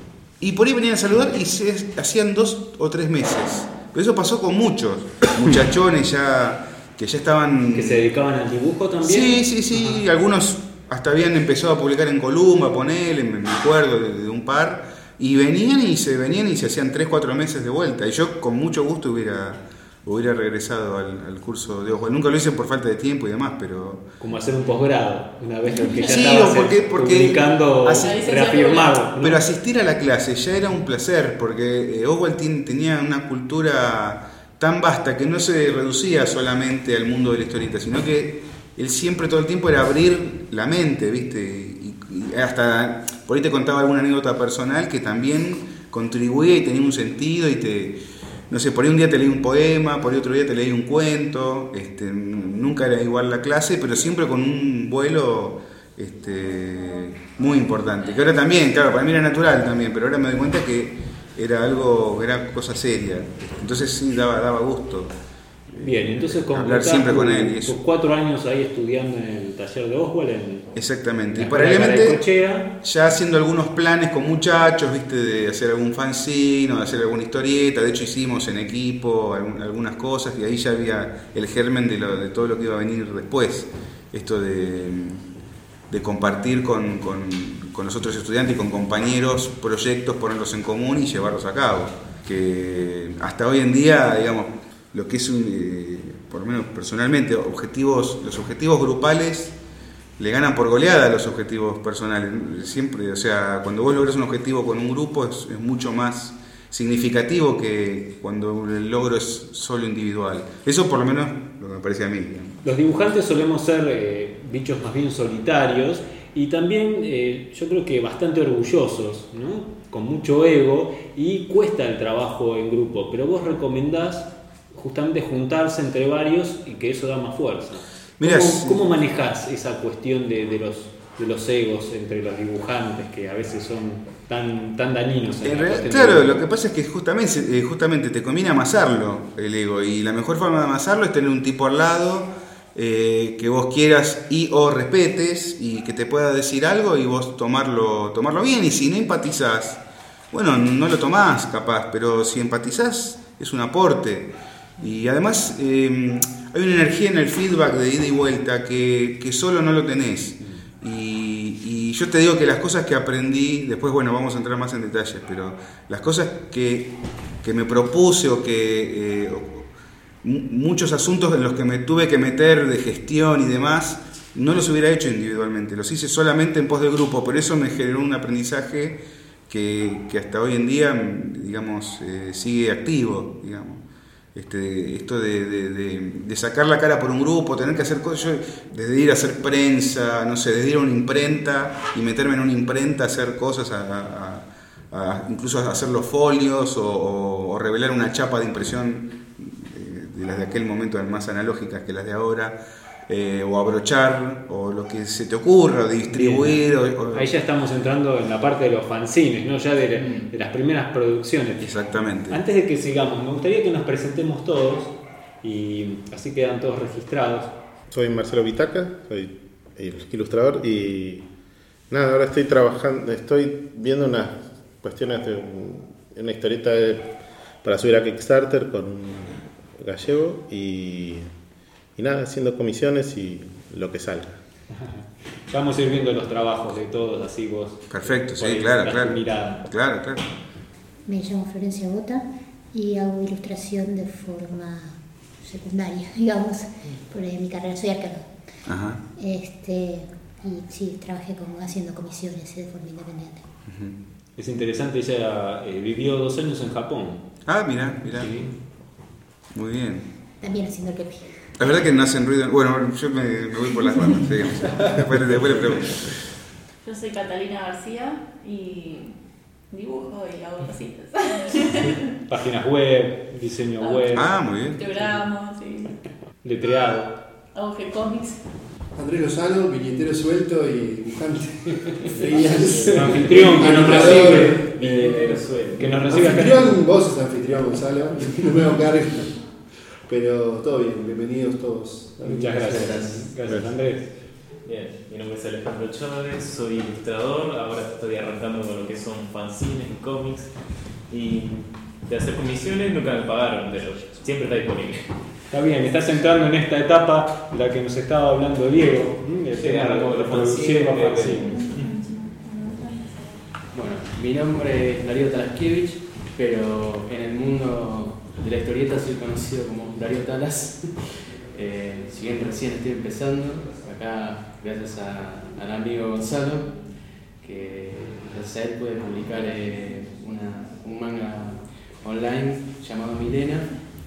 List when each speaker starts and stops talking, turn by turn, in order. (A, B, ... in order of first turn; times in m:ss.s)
0:00.4-0:08.0 A
0:07.7-0:09.4 B
0:09.0-0:24.0 A
0:24.2-0:29.4 B
0:25.8-0:26.2 C
0:26.0-0:28.4 A
0:27.9-0:29.0 C
0:29.2-0:48.0 A
0:48.5-1:05.1 A
1:05.7-1:07.8 A
1:05.8-1:10.7 B
1:10.7-1:12.2 A
1:11.3-1:12.7 B
1:12.8-1:25.2 A
1:25.9-1:39.5 A
1:40.2-1:52.6 A
1:52.6-2:16.4 B
2:08.2-2:08.8 A
2:15.4-2:49.7 A
2:50.2-3:27.3 A
3:26.1-3:26.6 B
3:27.1-3:31.7 B
3:31.6-3:32.4 A
3:32.3-3:37.5 B
3:37.9-3:41.3 D
3:41.9-3:51.3 D
3:52.0-3:54.4 D
3:55.5-3:59.6 B
3:57.9-4:00.3 A
4:01.1-4:08.3 E
4:08.6-4:09.0 A
4:09.2-4:13.5 E
4:13.7-4:14.0 A
4:14.4-4:17.2 B
4:17.5-4:18.4 A
4:18.2-4:18.5 B
4:19.5-4:20.1 A
4:20.4-4:21.5 E
4:21.6-4:26.1 A
4:26.8-4:29.1 C
4:29.7-4:32.0 C
4:32.3-4:34.3 B
4:34.1-4:34.9 A
4:34.7-4:36.0 C
4:36.4-4:37.1 B
4:37.5-4:38.4 C
4:39.0-4:45.5 F
4:42.0-4:46.8 G
4:42.3-4:46.8 B
4:46.0-4:49.4 F
4:50.0-4:53.3 F
4:52.2-4:53.3 G
4:52.2-4:54.0 B
4:54.6-5:05.2 G
5:05.5-5:11.7 B
5:09.6-5:11.9 G
5:11.6-5:13.4 C
5:13.7-5:26.8 H
5:27.4-5:33.7 H